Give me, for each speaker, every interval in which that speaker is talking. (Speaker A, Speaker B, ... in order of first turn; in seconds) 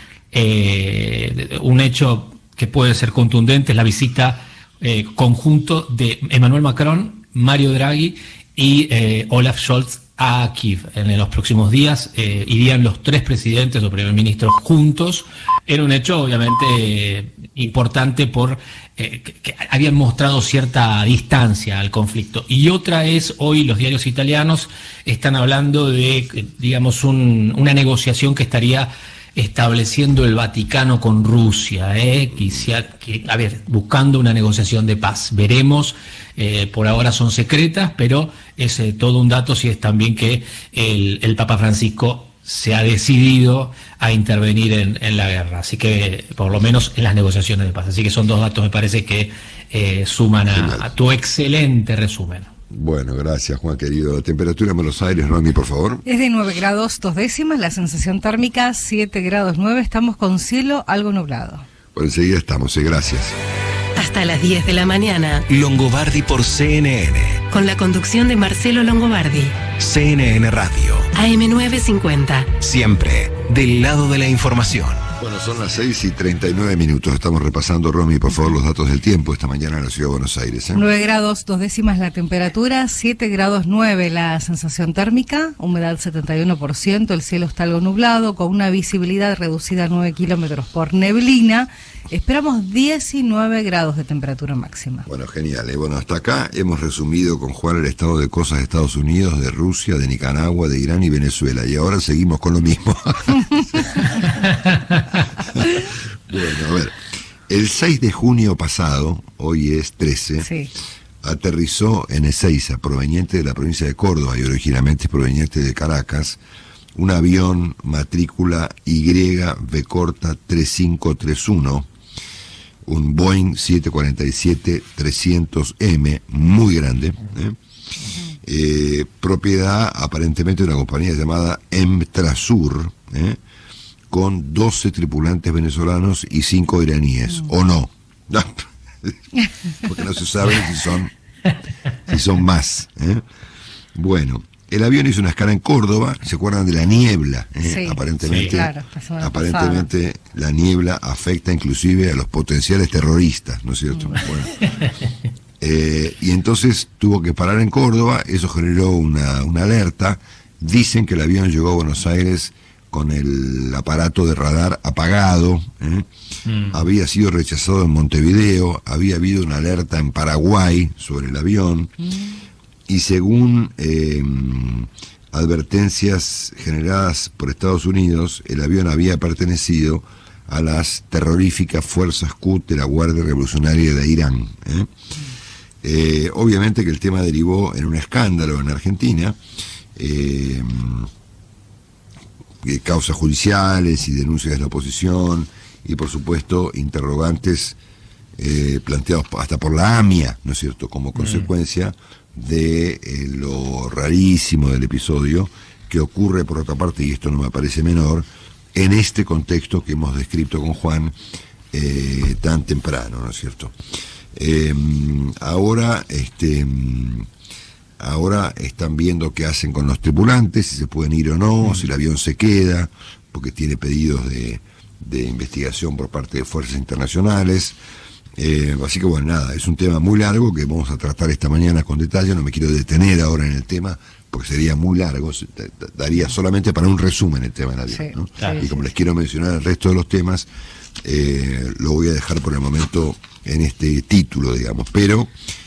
Speaker A: 0.3-52.5, 166.5-166.8, 201.2-201.5, 238.4-238.7
Speaker B: 50.5-50.9, 52.7-56.0, 61.9-63.3, 75.2-80.8, 95.1-104.1, 105.5-110.5, 111.2-116.4, 117.0-121.9, 122.9-127.6, 128.4-133.4, 134.1-139.2, 139.8-141.1, 142.1-143.2, 143.9-154.6, 155.6-166.1, 166.7-171.9, 172.9-184.9, 185.8-189.4, 190.0-191.1, 192.6-197.8, 198.4-211.2, 211.7-213.8, 214.3-217.3, 218.0-227.8, 228.4-240.5, 241.0-245.3
Speaker C: 56.1-61.7, 80.7-95.1, 110.4-110.7, 147.6-149.9, 153.9-154.2, 172.0-172.4, 237.9-238.8
Speaker D: 64.0-65.4, 67.5-69.6, 71.2-72.5
Speaker E: 65.5-67.4, 69.8-71.1, 72.6-75.0